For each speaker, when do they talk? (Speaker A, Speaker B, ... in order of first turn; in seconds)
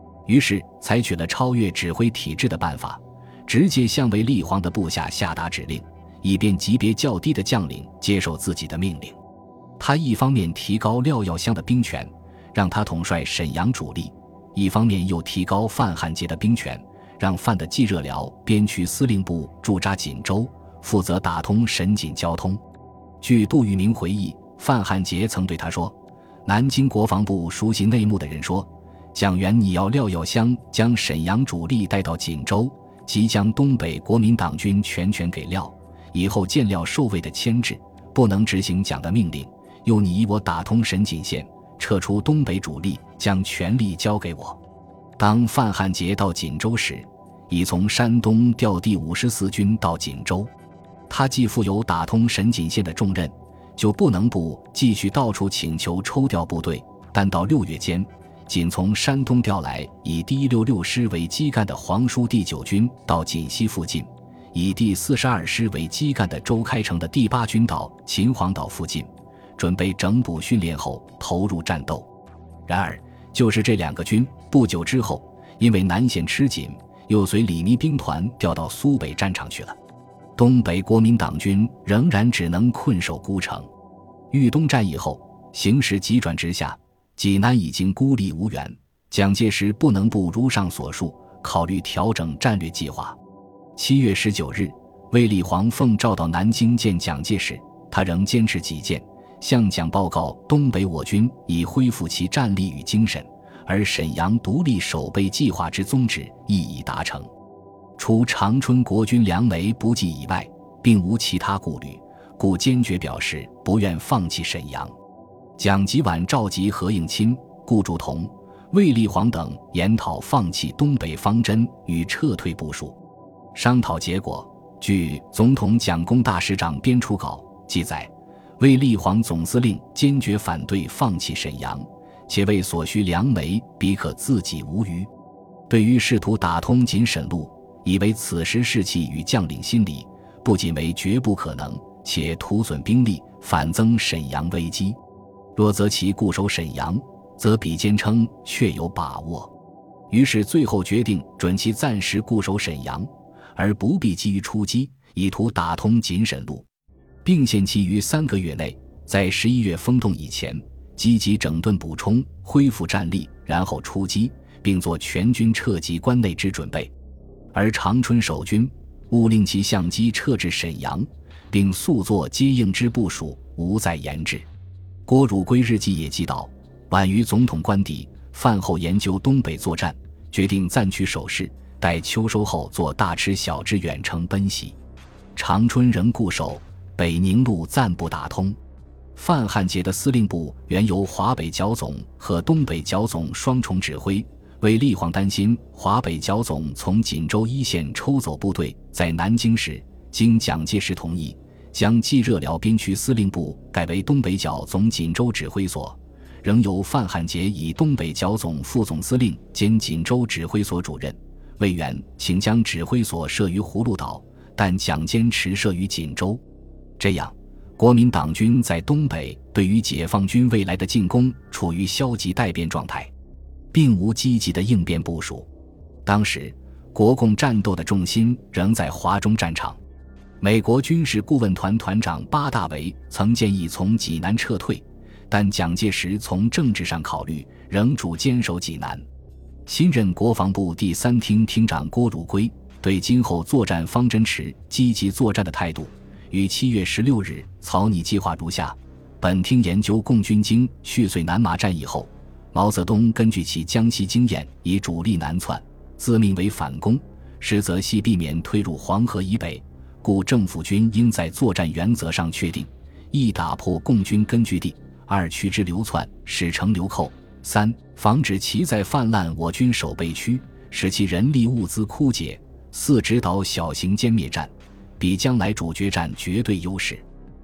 Speaker A: 0.2-9.2, 9.8-22.6, 23.2-44.6, 45.2-50.5, 51.1-72.1, 72.7-79.8, 80.4-83.7, 84.3-93.2, 93.7-107.3, 108.0-114.9, 115.6-123.0, 123.5-135.1, 135.7-145.0, 145.5-149.5, 150.1-156.7, 157.2-166.9, 167.5-174.5, 175.1-184.8, 185.3-188.6, 189.1-216.4, 217.0-223.1, 223.7-225.5, 226.0-229.8, 230.4-239.0, 239.7-277.0